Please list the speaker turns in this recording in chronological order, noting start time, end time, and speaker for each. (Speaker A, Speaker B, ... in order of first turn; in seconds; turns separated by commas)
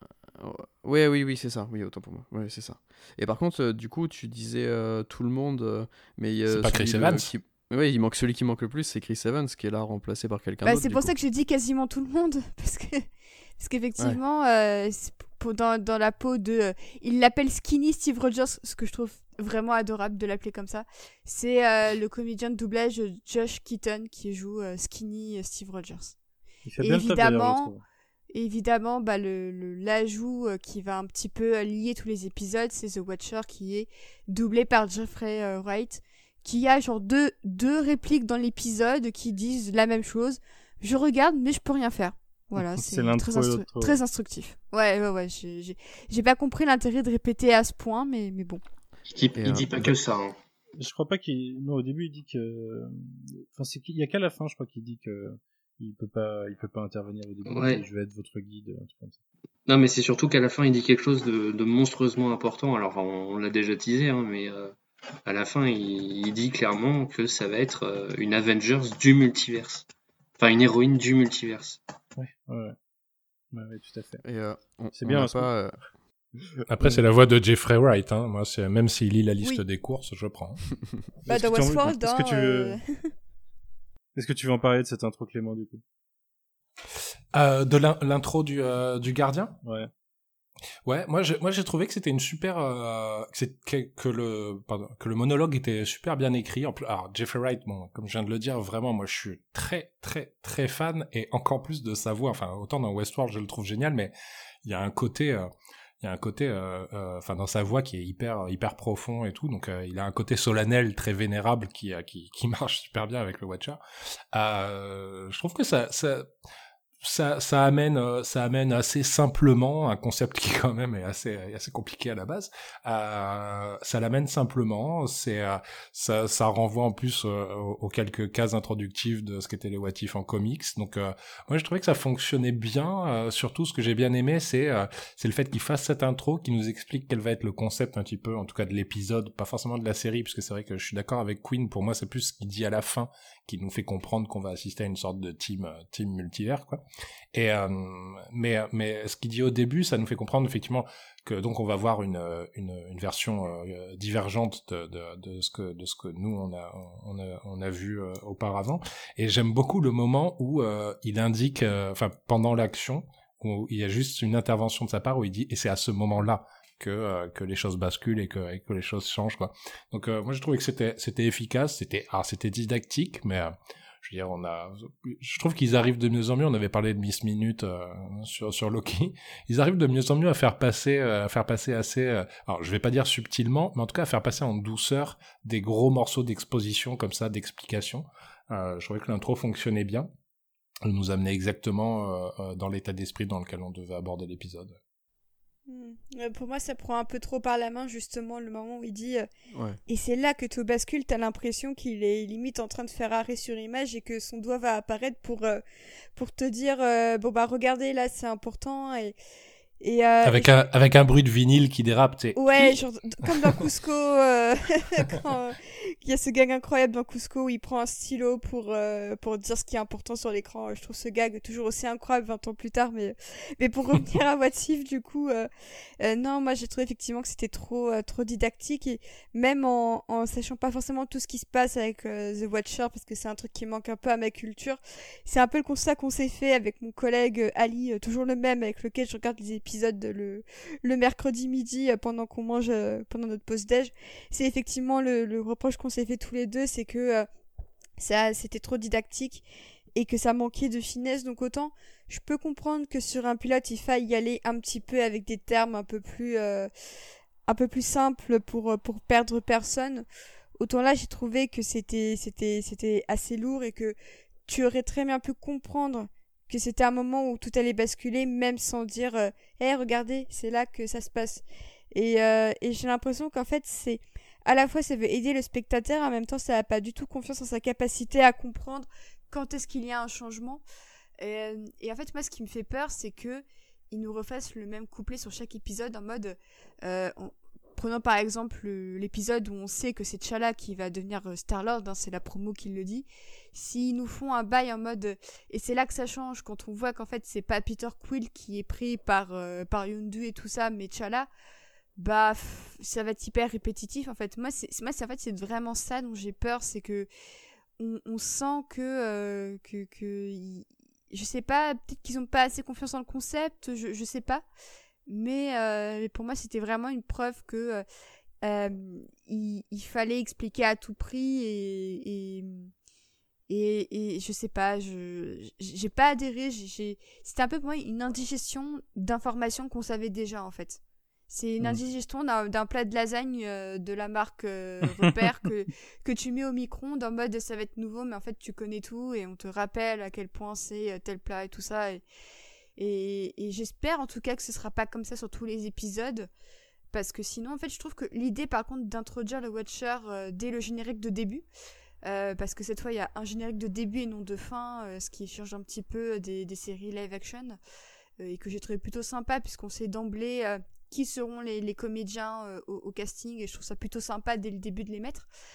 Speaker A: 0.3-11.1, Speaker B: 6.5-7.3, Speaker C: 10.6-13.0, Speaker C: 13.6-26.1, Speaker D: 26.6-27.8, Speaker C: 26.8-27.7, Speaker C: 28.3-48.6, Speaker D: 42.5-44.0, Speaker E: 49.1-50.4, Speaker A: 49.4-49.9, Speaker D: 50.8-59.2, Speaker E: 57.5-57.8, Speaker E: 59.7-69.9, Speaker E: 70.4-71.8, Speaker D: 72.2-72.8, Speaker D: 73.5-74.2, Speaker A: 74.2-75.8, Speaker D: 75.0-75.5, Speaker D: 76.4-77.0, Speaker B: 76.7-80.7, Speaker D: 81.2-82.8, Speaker C: 81.3-83.1, Speaker D: 84.1-85.8, Speaker B: 87.3-89.6, Speaker D: 89.6-89.9, Speaker B: 90.8-105.5, Speaker B: 106.0-113.8, Speaker B: 114.3-116.3, Speaker B: 117.0-146.8, Speaker B: 147.3-190.1, Speaker B: 190.8-194.8, Speaker C: 195.7-199.3, Speaker A: 199.5-199.8, Speaker C: 199.9-205.6, Speaker C: 206.1-209.2, Speaker C: 209.8-210.6, Speaker B: 210.2-212.8, Speaker C: 212.3-225.5, Speaker C: 226.0-247.3, Speaker C: 248.0-249.4, Speaker C: 249.9-256.7, Speaker C: 257.5-260.0, Speaker C: 260.6-263.9, Speaker C: 264.5-280.6, Speaker C: 281.2-301.3, Speaker C: 302.0-307.1, Speaker C: 307.8-314.4, Speaker C: 315.1-317.8, Speaker C: 318.4-322.7, Speaker C: 323.5-342.0, Speaker C: 342.8-346.3, Speaker C: 346.9-351.4, Speaker C: 352.0-357.6, Speaker C: 358.2-365.3